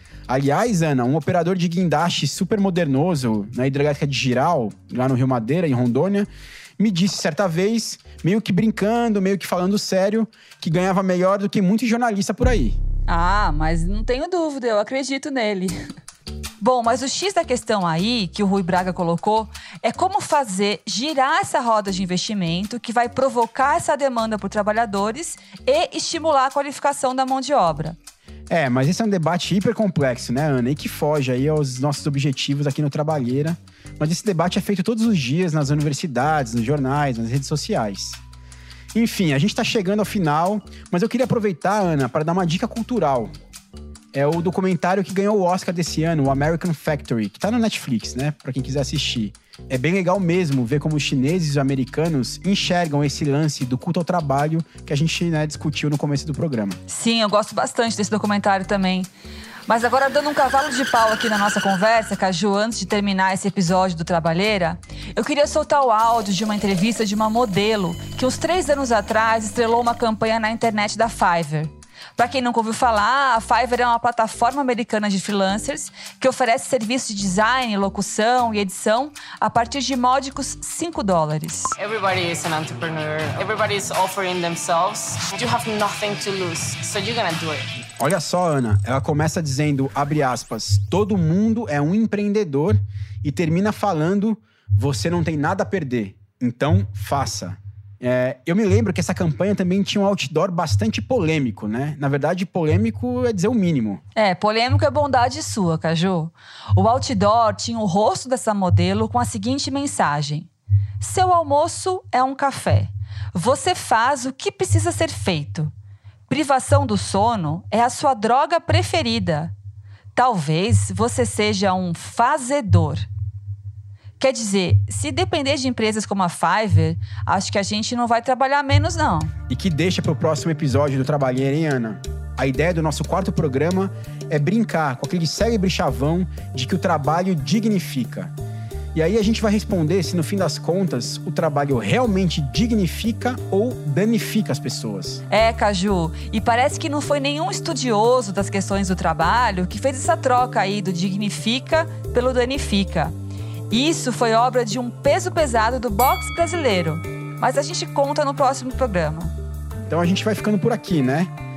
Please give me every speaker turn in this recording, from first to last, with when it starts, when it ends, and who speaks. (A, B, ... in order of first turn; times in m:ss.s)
0:00.3-0:12.8 A
0:13.1-0:15.8 B
0:16.6-0:28.0 B
0:28.5-0:38.2 A
0:38.9-0:43.3 A
0:44.1-0:56.8 A
0:56.9-0:59.1 B
0:59.7-1:21.7 B
1:21.8-1:27.7 C
1:28.0-1:44.0 A
1:44.2-1:50.5 B
1:51.0-1:55.7 B
1:56.3-1:59.5 B
2:00.2-2:03.1 B
2:04.2-2:09.3 B
2:09.5-2:18.3 A
2:18.9-2:25.2 A
2:25.3-2:33.2 B
2:33.7-2:39.3 B
2:39.9-2:41.3 A